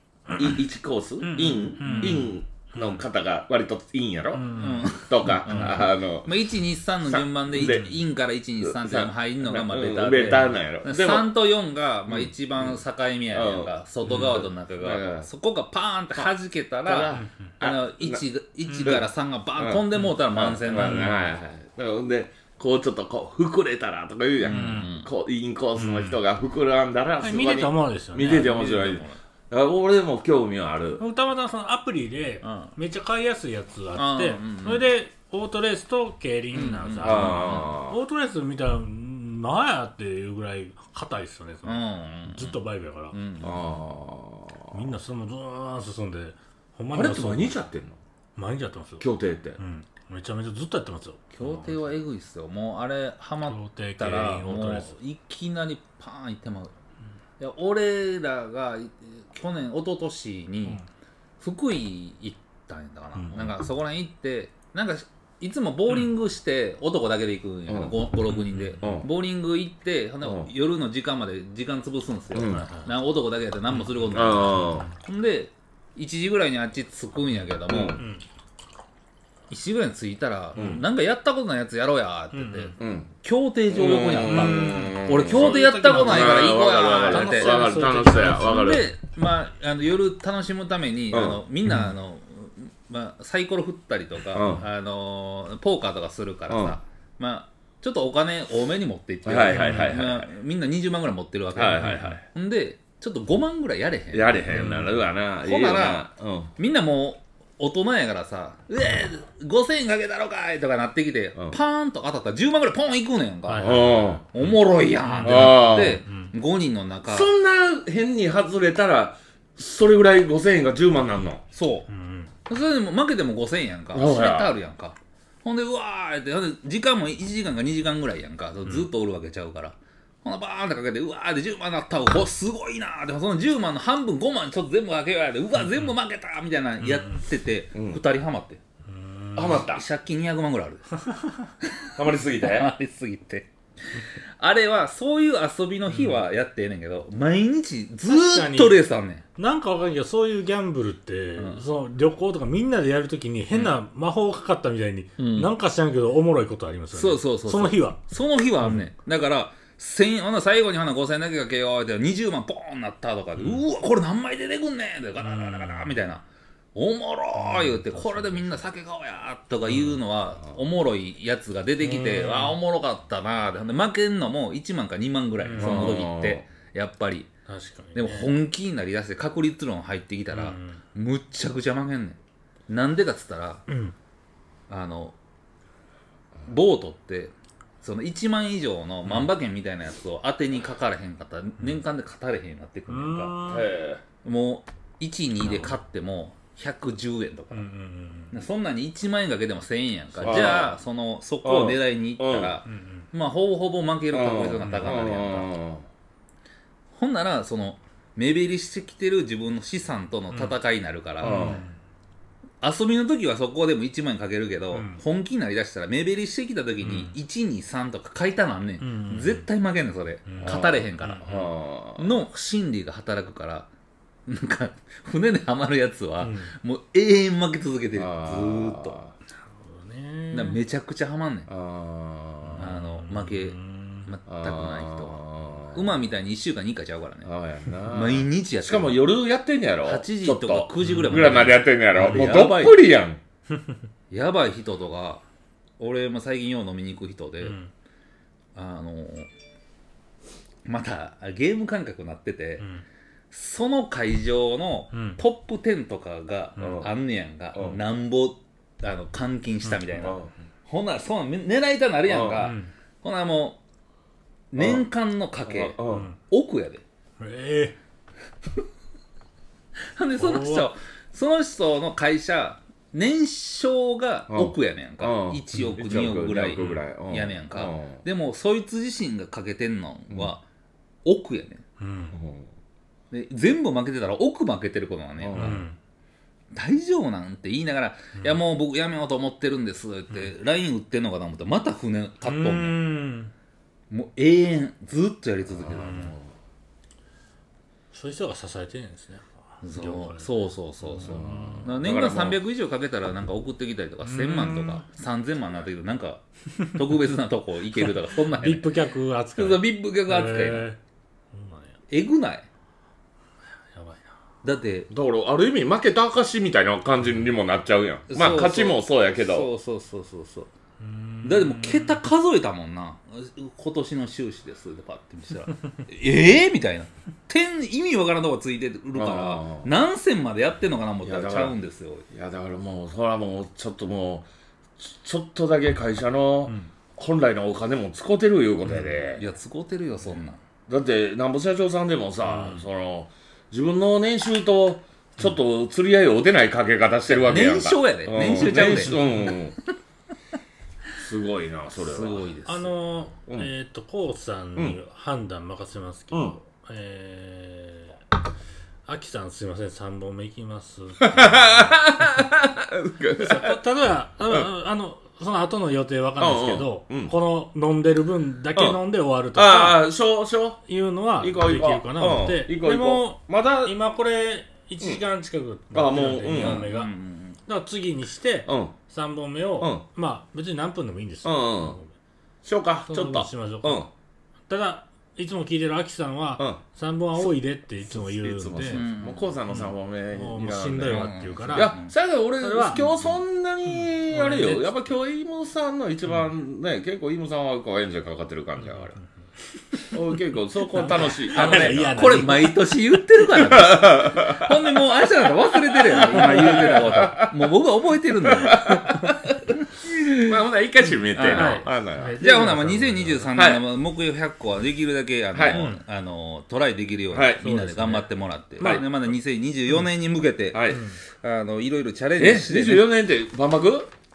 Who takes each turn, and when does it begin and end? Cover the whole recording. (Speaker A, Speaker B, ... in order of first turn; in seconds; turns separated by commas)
Speaker A: 0.3-6.3, Speaker B: 1.2-3.0, Speaker C: 1.8-2.3, Speaker B: 4.3-5.8, Speaker C: 4.5-21.2, Speaker A: 7.0-7.9, Speaker A: 8.6-11.3, Speaker A: 12.1-15.3, Speaker A: 16.8-18.2, Speaker B: 18.7-19.0, Speaker A: 18.8-31.0, Speaker B: 20.7-21.2, Speaker C: 24.4-25.1, Speaker B: 24.5-24.9, Speaker B: 25.8-26.2, Speaker B: 27.2-28.6, Speaker C: 28.2-29.2, Speaker B: 31.0-43.2, Speaker C: 32.4-32.7, Speaker C: 34.0-34.9, Speaker C: 36.5-37.7, Speaker A: 37.0-38.0, Speaker C: 41.7-42.6, Speaker C: 43.1-43.6, Speaker A: 43.4-44.9, Speaker B: 44.7-47.6, Speaker A: 46.9-48.0, Speaker B: 48.4-52.0, Speaker A: 49.0-49.6, Speaker C: 51.3-56.7, Speaker B: 53.4-54.9, Speaker C: 57.4-60.8, Speaker C: 61.4-78.0, Speaker B: 63.2-63.5, Speaker A: 67.7-68.0, Speaker B: 68.3-69.0, Speaker A: 68.8-69.1, Speaker A: 70.2-70.5, Speaker A: 72.3-72.7, Speaker B: 72.4-72.9, Speaker B: 73.7-74.4, Speaker A: 74.1-74.9, Speaker A: 77.7-78.0, Speaker B: 77.9-78.2, Speaker C: 79.5-87.5, Speaker A: 80.5-80.8, Speaker B: 80.6-80.8, Speaker B: 82.3-82.8, Speaker A: 82.8-83.1, Speaker A: 83.7-88.9, Speaker B: 84.0-88.8, Speaker C: 88.3-104.7, Speaker A: 91.1-91.4, Speaker A: 94.3-94.7, Speaker A: 96.5-96.8, Speaker A: 99.2-100.3, Speaker B: 99.5-99.9, Speaker A: 101.5-102.2, Speaker A: 104.1-106.5, Speaker B: 104.5-104.9, Speaker C: 105.4-117.3, Speaker B: 113.5-116.4, Speaker A: 113.6-114.2, Speaker A: 115.2-116.0, Speaker A: 117.1-121.4, Speaker C: 121.5-121.9, Speaker B: 121.9-122.3, Speaker C: 122.5-138.6, Speaker A: 123.9-124.5, Speaker B: 135.6-135.9, Speaker B: 136.8-137.2, Speaker A: 137.7-138.0, Speaker B: 138.9-139.6, Speaker A: 139.3-139.8, Speaker C: 139.5-140.9, Speaker C: 141.6-149.2, Speaker A: 142.0-142.7, Speaker B: 145.9-146.2, Speaker B: 148.1-148.8, Speaker B: 149.4-158.0, Speaker C: 151.4-151.6, Speaker C: 155.2-155.5, Speaker C: 156.9-177.3, Speaker B: 158.6-158.9, Speaker B: 163.4-163.7, Speaker B: 165.2-166.0, Speaker B: 167.4-168.6, Speaker B: 169.7-170.0, Speaker B: 171.8-172.6, Speaker B: 175.4-176.1, Speaker A: 175.6-176.4, Speaker B: 177.5-178.3, Speaker C: 177.9-183.7, Speaker B: 180.3-180.8, Speaker B: 183.7-183.9, Speaker C: 184.7-185.2, Speaker C: 186.5-193.3, Speaker B: 192.9-193.7, Speaker A: 193.5-194.0, Speaker C: 194.2-197.7, Speaker B: 195.4-195.7, Speaker B: 197.5-198.4, Speaker C: 198.3-205.5, Speaker B: 200.1-200.5, Speaker A: 200.2-200.8, Speaker A: 201.4-202.6, Speaker B: 202.7-203.1, Speaker A: 204.1-205.9, Speaker B: 204.6-205.0, Speaker C: 206.9-211.7, Speaker B: 210.3-210.6, Speaker A: 211.2-211.6, Speaker B: 211.2-211.8, Speaker C: 212.6-221.4, Speaker B: 214.7-215.0, Speaker B: 216.8-217.2, Speaker B: 218.8-219.5, Speaker B: 220.3-221.5, Speaker A: 220.4-222.2, Speaker C: 222.0-223.7, Speaker C: 224.3-229.0, Speaker B: 226.2-226.5, Speaker A: 227.9-229.1, Speaker B: 229.4-230.6, Speaker C: 230.3-231.5, Speaker A: 231.5-232.7, Speaker B: 232.5-234.1, Speaker C: 232.6-235.2, Speaker A: 234.3-236.0, Speaker C: 235.7-237.3, Speaker A: 237.2-243.2, Speaker C: 237.8-239.0, Speaker C: 239.8-242.8, Speaker B: 240.8-242.5, Speaker C: 244.1-245.2, Speaker C: 245.8-247.6, Speaker B: 247.4-247.7, Speaker C: 248.6-249.3, Speaker C: 250.7-252.7, Speaker B: 252.6-252.8, Speaker C: 253.3-263.6, Speaker B: 254.9-255.2, Speaker B: 256.6-256.8, Speaker A: 256.6-256.9, Speaker A: 257.5-257.8, Speaker A: 260.0-260.3, Speaker A: 262.1-262.4, Speaker B: 262.4-262.7, Speaker C: 264.5-266.8, Speaker A: 264.6-264.9, Speaker A: 265.4-266.1, Speaker B: 265.9-266.2, Speaker B: 267.2-267.8, Speaker C: 269.8-280.4, Speaker B: 270.2-270.7, Speaker A: 274.3-278.0, Speaker B: 276.6-276.8, Speaker C: 281.1-281.6, Speaker B: 281.8-282.2, Speaker A: 282.1-282.5, Speaker C: 283.1-285.7, Speaker A: 285.2-285.6, Speaker B: 285.3-285.8, Speaker C: 286.5-292.8, Speaker B: 292.2-293.3, Speaker C: 293.9-296.2, Speaker A: 295.5-296.2, Speaker B: 297.9-300.3, Speaker C: 299.6-308.7, Speaker B: 300.9-301.7, Speaker A: 301.0-302.4, Speaker B: 304.0-304.9, Speaker B: 307.8-310.8, Speaker C: 309.4-310.7, Speaker B: 311.3-311.8, Speaker C: 311.9-312.5, Speaker B: 313.7-314.1, Speaker C: 314.4-314.9, Speaker A: 314.9-319.5, Speaker C: 318.1-320.5, Speaker B: 320.8-322.0, Speaker C: 321.2-332.1, Speaker A: 328.9-329.7, Speaker A: 331.0-331.6, Speaker A: 332.1-334.3, Speaker A: 334.8-339.2, Speaker C: 339.2-340.4, Speaker A: 340.7-349.6, Speaker B: 342.2-342.6, Speaker C: 347.1-349.4, Speaker B: 348.6-349.4, Speaker A: 351.0-352.3, Speaker C: 351.8-352.7, Speaker B: 352.5-358.0, Speaker A: 356.1-356.4, Speaker B: 358.9-362.1, Speaker A: 361.0-363.6, Speaker B: 363.2-369.9, Speaker A: 366.2-367.1, Speaker A: 369.3-370.6, Speaker B: 370.7-376.9, Speaker A: 371.2-373.8, Speaker A: 375.7-376.7, Speaker C: 376.3-377.4, Speaker B: 377.5-381.9, Speaker A: 378.5-378.8, Speaker A: 379.6-379.9, Speaker A: 381.2-381.8, Speaker A: 382.4-383.9, Speaker B: 382.9-383.9, Speaker B: 384.5-388.8, Speaker A: 387.9-399.0, Speaker C: 388.7-389.3, Speaker B: 389.5-391.8, Speaker C: 390.9-391.9, Speaker B: 392.4-392.9, Speaker B: 393.7-394.8, Speaker A: 399.9-402.3, Speaker B: 400.8-402.6, Speaker C: 401.3-410.2, Speaker A: 403.3-404.5, Speaker A: 405.9-407.5, Speaker B: 406.3-406.7, Speaker A: 408.2-409.2, Speaker A: 409.8-412.2, Speaker C: 411.1-422.9, Speaker B: 411.2-413.3, Speaker A: 413.4-413.6, Speaker A: 415.3-415.7, Speaker B: 415.5-415.8, Speaker A: 417.1-417.5, Speaker B: 417.4-418.9, Speaker A: 420.5-420.9, Speaker B: 420.7-421.0, Speaker A: 422.2-423.9